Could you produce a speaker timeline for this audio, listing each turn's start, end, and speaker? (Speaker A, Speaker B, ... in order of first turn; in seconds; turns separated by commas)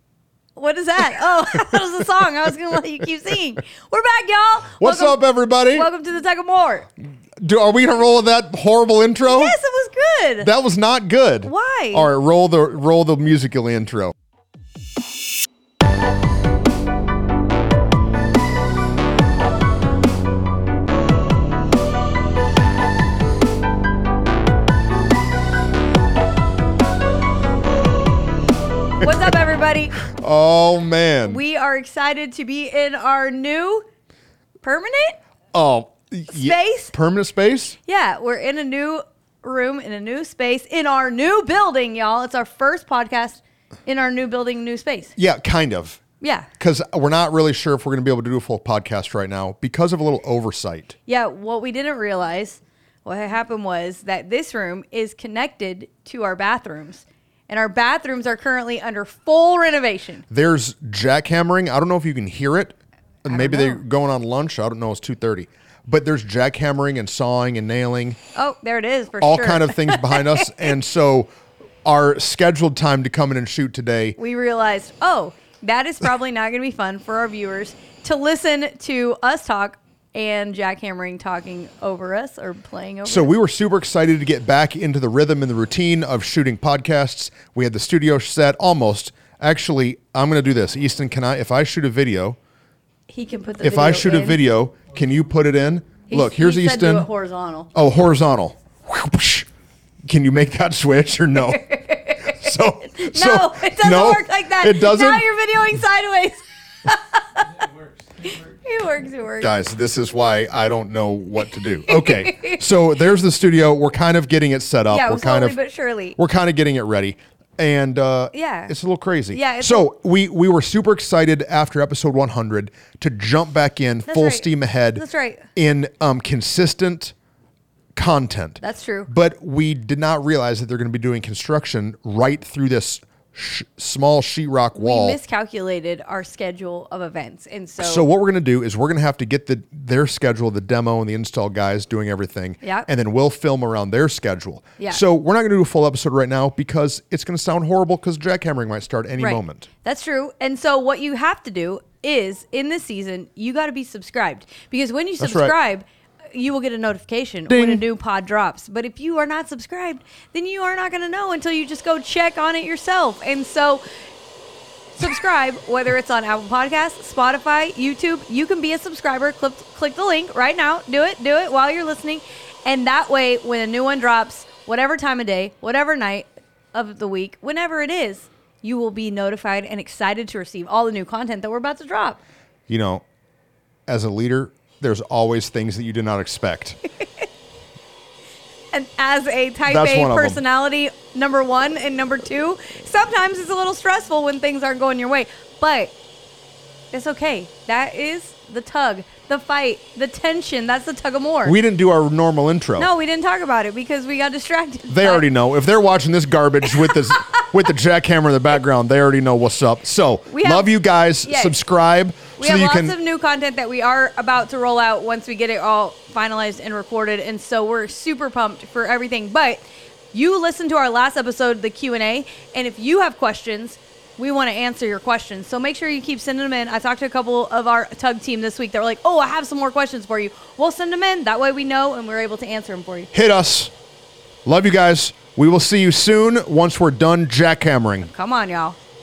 Speaker A: 0.6-5.2, Speaker B: 4.8-5.9, Speaker A: 5.7-6.9, Speaker B: 7.4-9.6, Speaker A: 9.2-10.5, Speaker B: 10.4-14.1, Speaker A: 11.4-12.1, Speaker A: 29.0-29.9, Speaker B: 30.1-31.4, Speaker A: 31.2-33.8, Speaker A: 34.6-35.2, Speaker B: 35.5-37.8, Speaker A: 36.3-36.9, Speaker A: 37.9-45.1, Speaker B: 45.1-46.0, Speaker A: 46.2-46.5, Speaker B: 46.6-50.9, Speaker A: 51.1-60.2, Speaker B: 60.3-68.2, Speaker A: 63.2-63.8, Speaker A: 68.3-70.5, Speaker B: 69.2-71.3, Speaker B: 71.8-74.2, Speaker A: 74.2-83.3, Speaker B: 83.0-92.4, Speaker A: 93.1-94.4, Speaker B: 93.6-97.1, Speaker A: 96.1-97.7, Speaker B: 97.7-99.5, Speaker B: 100.1-105.2, Speaker A: 101.3-107.4, Speaker A: 108.2-109.6, Speaker B: 109.4-115.6, Speaker A: 111.8-112.6, Speaker A: 114.9-116.2, Speaker B: 116.2-125.0, Speaker A: 118.3-118.7, Speaker A: 119.3-119.9, Speaker A: 124.1-125.5, Speaker B: 125.5-127.1, Speaker B: 127.9-135.2, Speaker A: 128.6-129.1, Speaker A: 134.8-138.1, Speaker B: 137.8-149.7, Speaker A: 142.6-142.9, Speaker A: 149.2-163.8, Speaker B: 155.2-155.5, Speaker B: 157.5-157.8, Speaker A: 165.0-182.2, Speaker B: 182.7-183.0, Speaker B: 183.9-186.8, Speaker A: 188.7-195.9, Speaker B: 189.7-190.4, Speaker A: 196.9-201.6, Speaker B: 201.4-202.9, Speaker A: 202.8-205.3, Speaker B: 204.9-212.9, Speaker A: 206.9-207.1, Speaker A: 210.3-210.7, Speaker A: 211.2-211.6, Speaker A: 212.4-233.1, Speaker B: 233.1-233.7, Speaker B: 234.4-238.1, Speaker A: 238.1-238.8